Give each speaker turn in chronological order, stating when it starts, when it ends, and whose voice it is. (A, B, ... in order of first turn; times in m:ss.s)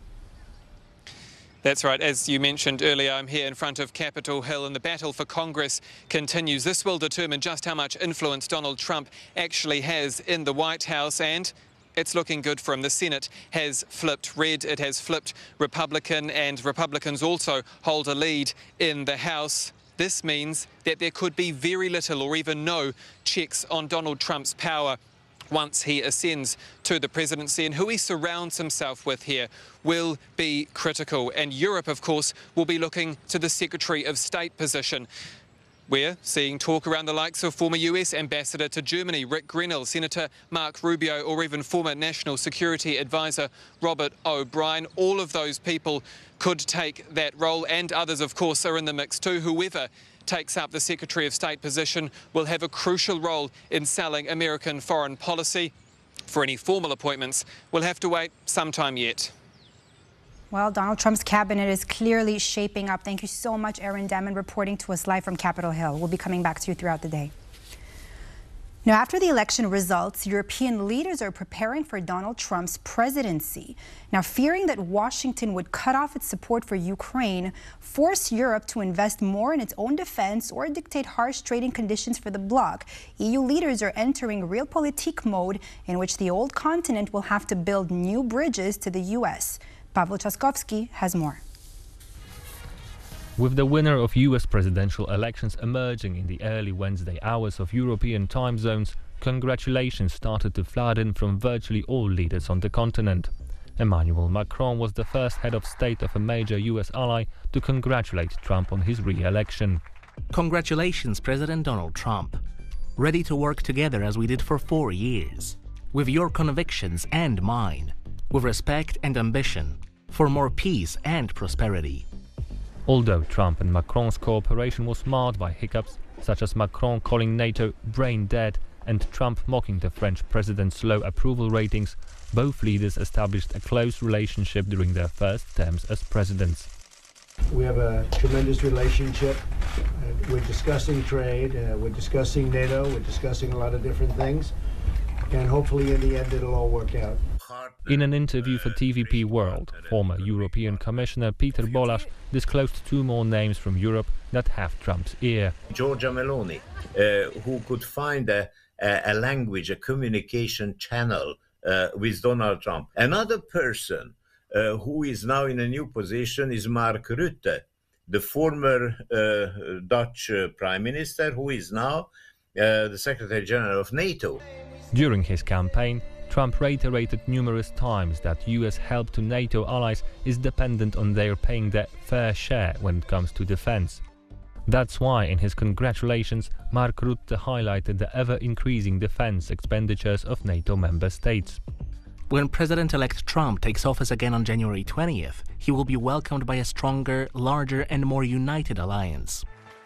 0:01.6-0:25.0 A
0:25.5-0:35.1 A
0:35.9-0:55.7 A
0:56.3-0:59.3 A
1:00.5-1:07.3 B
1:08.8-1:31.4 B
1:33.4-1:49.8 C
1:50.3-1:52.4 D
1:53.0-2:02.0 D
2:02.9-2:16.7 C
2:17.5-2:19.4 E
2:20.0-2:24.5 E
2:25.3-2:27.2 E
2:27.4-2:30.8 F
2:27.9-2:35.5 C
2:31.6-2:31.9 F
2:35.7-2:54.4 F
2:54.9-3:04.0 C
3:04.6-3:11.6 C
3:12.3-3:19.4 D